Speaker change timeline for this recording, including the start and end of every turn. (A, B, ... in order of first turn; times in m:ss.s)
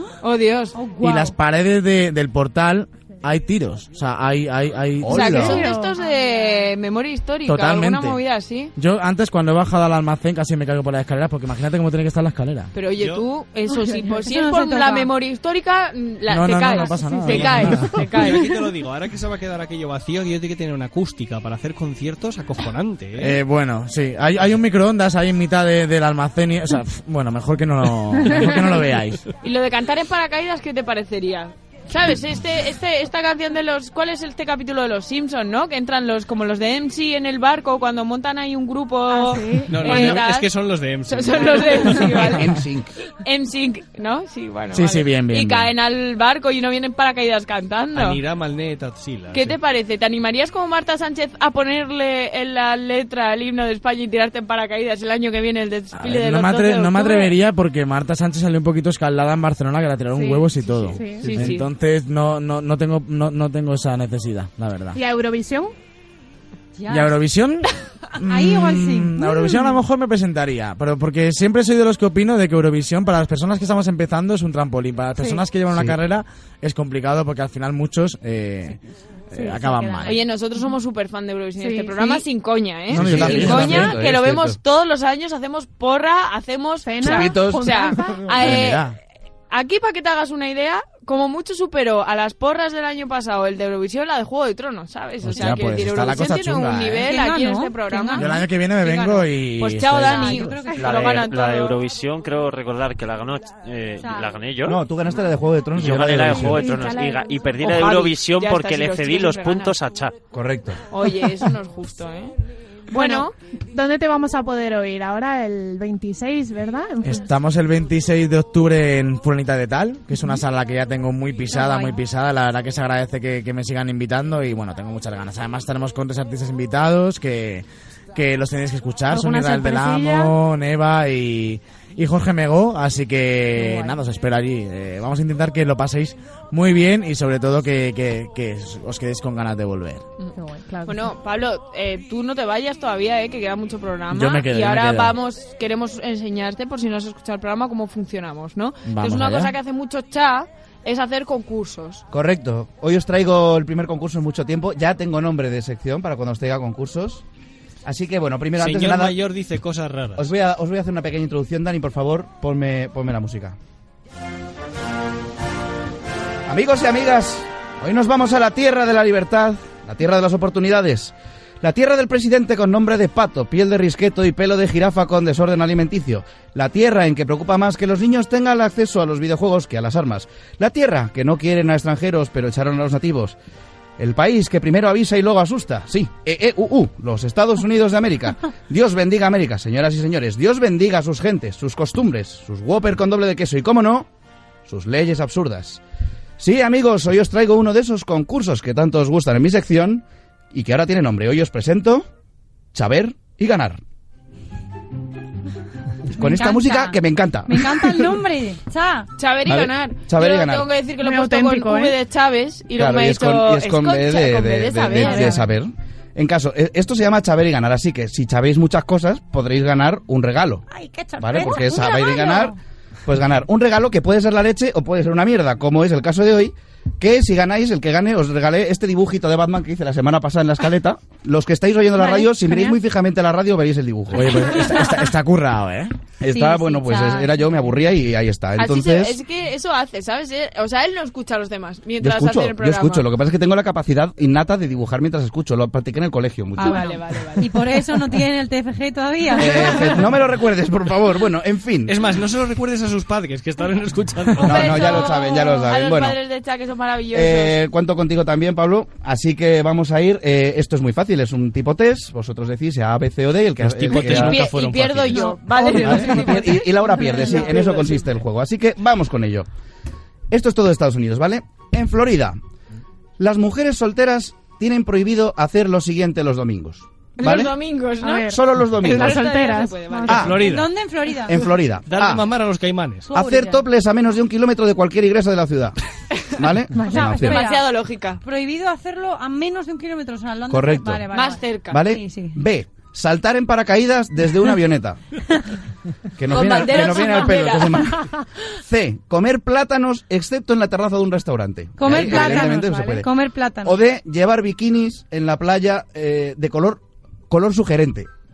0:00.2-0:00.8 A
0:00.7-0:01.3 B
0:01.0-0:05.6 C
0:05.0-0:05.6 D
0:05.1-0:08.7 A
0:05.1-0:06.6 E
0:07.4-0:08.2 C
0:08.8-0:12.7 C
0:12.7-0:18.5 A
0:13.0-0:13.3 F
0:14.2-0:15.1 B
0:16.3-0:17.9 C
0:17.2-0:23.4 F
0:23.2-0:29.2 C
0:29.4-0:40.5 A
0:39.1-0:40.1 E
0:39.7-0:42.4 F
0:41.1-0:42.5 A
0:42.2-0:42.9 D
0:43.2-0:48.2 A
0:44.7-0:45.7 C
0:47.9-0:49.6 F
0:49.3-0:57.3 A
0:55.9-1:05.0 C
1:00.1-1:00.4 A
1:00.8-1:01.5 E
1:01.2-1:01.5 F
1:01.2-1:01.7 A
1:04.9-1:05.7 E
1:06.8-1:07.2 B
1:06.9-1:18.8 C
1:08.2-1:09.2 B
1:15.2-1:15.4 E
1:19.3-1:20.2 C
1:19.3-1:20.7 E
1:20.0-1:28.9 A
1:21.6-1:22.2 E
1:22.9-1:24.6 D
1:22.9-1:24.0 C
1:26.8-1:28.4 E
1:27.0-1:27.9 D
1:28.3-1:29.0 C
1:29.5-1:41.8 A
1:35.2-1:37.1 C
1:37.0-1:38.4 B
1:38.2-1:40.6 C
1:40.0-1:40.9 B
1:40.7-1:44.8 G
1:44.0-1:44.4 B
1:44.6-1:46.8 D
1:45.7-1:50.2 G
1:46.2-1:47.4 E
1:47.6-1:49.7 A
1:50.3-1:50.8 D
1:50.9-1:52.4 A
1:52.9-1:53.3 A
1:52.9-1:57.3 E
1:57.0-2:20.0 C
2:01.5-2:02.0 B
2:09.1-2:10.3 E
2:13.5-2:14.0 E
2:20.4-2:21.2 E
2:20.8-2:32.0 A
2:24.1-2:25.2 C
2:28.8-2:29.5 C
2:32.1-2:37.2 D
2:37.8-2:39.2 D
2:38.6-2:40.3 F
2:40.2-2:43.6 D
2:46.5-3:03.4 D
3:04.0-3:14.1 D
3:14.6-3:15.8 D
3:16.4-3:22.0 D
3:22.7-3:23.8 D
3:26.1-3:28.1 D
3:26.2-3:29.1 B
3:29.2-3:35.4 A
3:29.4-3:30.7 D
3:31.0-3:32.0 E
3:32.7-3:40.6 D
3:34.9-3:35.4 B
3:40.7-3:42.6 B
3:41.2-3:42.5 D
3:43.0-3:55.0 D
3:52.0-3:52.8 E
3:54.1-3:55.9 C
3:56.2-3:59.2 D
3:56.2-3:57.5 B
3:58.6-4:03.1 A
4:02.0-4:06.9 D
4:06.6-4:10.1 B
4:06.6-4:07.6 A
4:09.3-4:12.0 D
4:11.9-4:15.0 F
4:14.4-4:16.2 D
4:14.4-4:17.6 A
4:17.1-4:24.5 D
4:23.6-4:25.3 F
4:23.9-4:28.0 A
4:25.5-4:27.8 E
4:25.5-4:29.5 D
4:30.3-4:32.4 D
4:33.2-4:37.6 D
4:37.2-4:38.3 A
4:38.0-4:40.6 E
4:38.3-4:39.4 D
4:38.8-4:40.4 A
4:40.0-4:40.4 D
4:40.2-4:40.7 F
4:40.4-4:41.4 B
4:41.2-4:42.3 D
4:41.8-4:43.1 F
4:43.1-4:43.6 B
4:43.1-4:45.8 D
4:46.4-4:47.4 D
4:46.7-4:47.3 E
4:46.8-4:52.4 B
4:47.2-4:48.2 A
4:50.5-4:51.0 D
4:51.1-4:51.8 A
4:51.7-4:55.0 D
4:56.2-5:03.1 D
4:56.3-4:57.9 A
5:01.8-5:03.8 B
5:01.9-5:03.0 E
5:03.6-5:08.1 D